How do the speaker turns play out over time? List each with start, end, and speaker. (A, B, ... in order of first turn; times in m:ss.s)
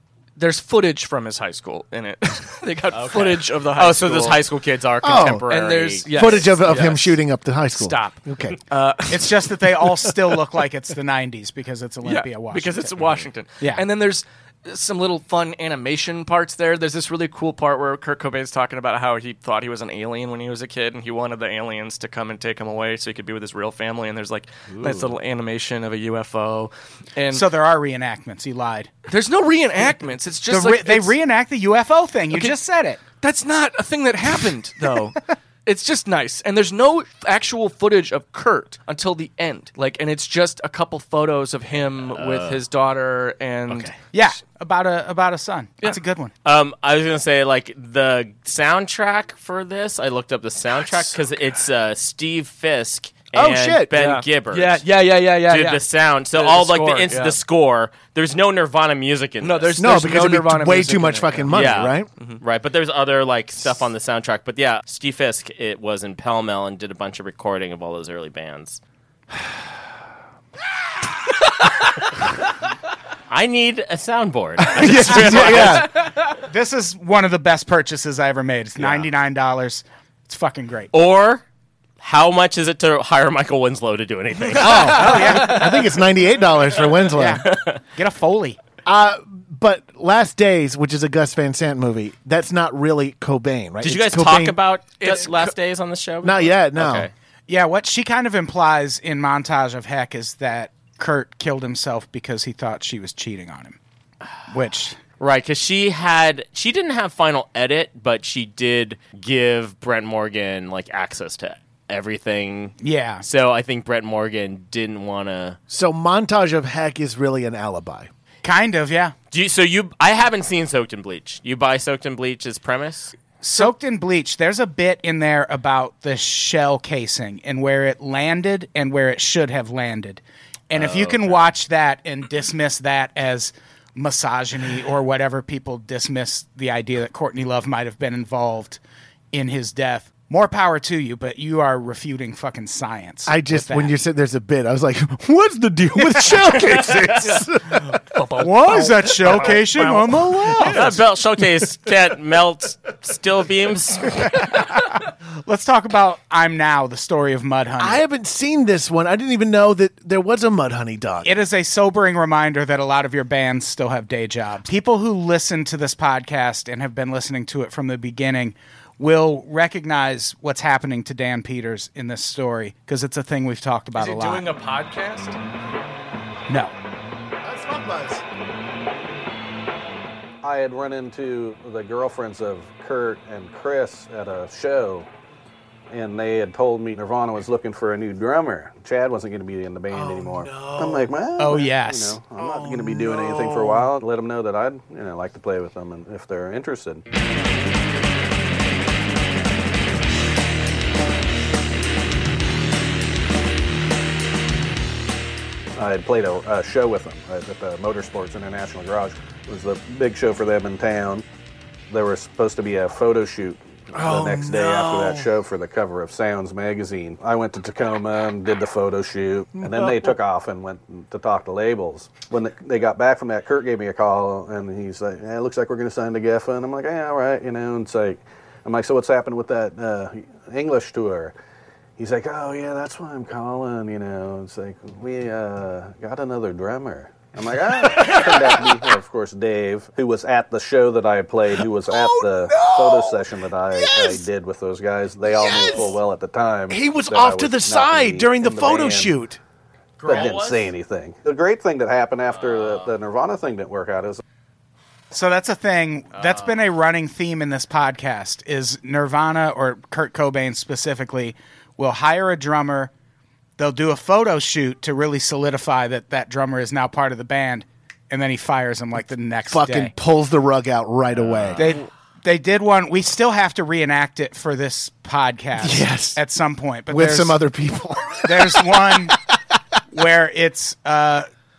0:00.4-0:04.4 A
0:02.9-0:06.6 B
0:05.0-0:05.4 C
0:05.5-0:07.2 A
0:06.1-0:08.6 C
0:07.7-0:09.6 A
0:09.1-0:12.9 D
0:12.0-0:27.4 A
0:24.8-0:25.1 B
0:27.3-0:28.9 D
0:29.1-0:31.2 A
0:30.5-0:33.0 D
0:33.2-0:43.9 A
0:42.0-0:42.6 B
0:43.7-0:43.9 B
0:44.1-0:46.3 D
0:46.4-0:54.8 B
0:53.3-0:53.9 C
0:53.9-0:57.4 A
0:55.4-0:59.8 B
0:59.4-1:02.4 A
0:59.8-1:02.1 C
1:01.5-1:08.8 B
1:13.3-1:15.9 B
1:14.6-1:15.9 C
1:15.2-1:16.3 A
1:15.3-1:15.8 D
1:16.4-1:20.9 D
1:18.8-1:19.0 B
1:20.9-1:21.4 B
1:22.0-1:25.2 B
1:24.5-1:27.4 C
1:24.6-1:25.8 A
1:24.8-1:25.7 D
1:27.1-1:28.6 D
1:27.4-1:27.8 B
1:28.8-1:34.6 C
1:33.8-1:37.1 B
1:35.0-1:35.5 A
1:36.2-1:37.1 C
1:37.5-1:43.8 D
1:44.5-1:45.0 D
1:45.2-1:55.6 B
1:52.8-1:53.2 D
1:55.7-1:58.1 C
1:58.4-1:59.1 D
1:59.3-2:03.2 B
2:03.4-2:18.8 D
2:10.7-2:11.5 B
2:19.3-2:23.9 D
2:23.2-2:28.2 C
2:26.6-2:27.3 B
2:27.2-2:29.9 A
2:28.4-2:30.9 D
2:29.3-2:31.0 C
2:30.6-2:34.6 B
2:35.4-2:38.0 D
2:37.8-2:41.3 C
2:41.2-2:54.4 D
2:53.9-2:55.4 A
2:56.5-2:56.7 D
2:57.4-2:58.2 C
3:00.4-3:05.1 E
3:05.9-3:17.0 E
3:09.9-3:11.1 C
3:11.4-3:12.2 D
3:12.3-3:13.9 C
3:25.8-3:31.2 E
3:31.9-3:51.3 E
3:33.9-3:35.3 C
3:39.6-3:40.2 C
3:52.0-4:09.1 E
3:57.8-3:58.6 C
4:01.8-4:04.2 C
4:05.3-4:06.0 C
4:06.7-4:09.4 C
4:10.0-4:10.7 B
4:10.0-4:14.2 E
4:12.3-4:12.9 B
4:15.1-4:22.9 D
4:16.1-4:16.6 B
4:23.6-4:29.9 D
4:29.5-4:31.7 C
4:31.1-4:31.8 B
4:31.6-4:37.4 D
4:35.6-4:36.2 C
4:36.9-4:39.1 C
4:38.2-4:39.2 D
4:39.9-4:41.3 D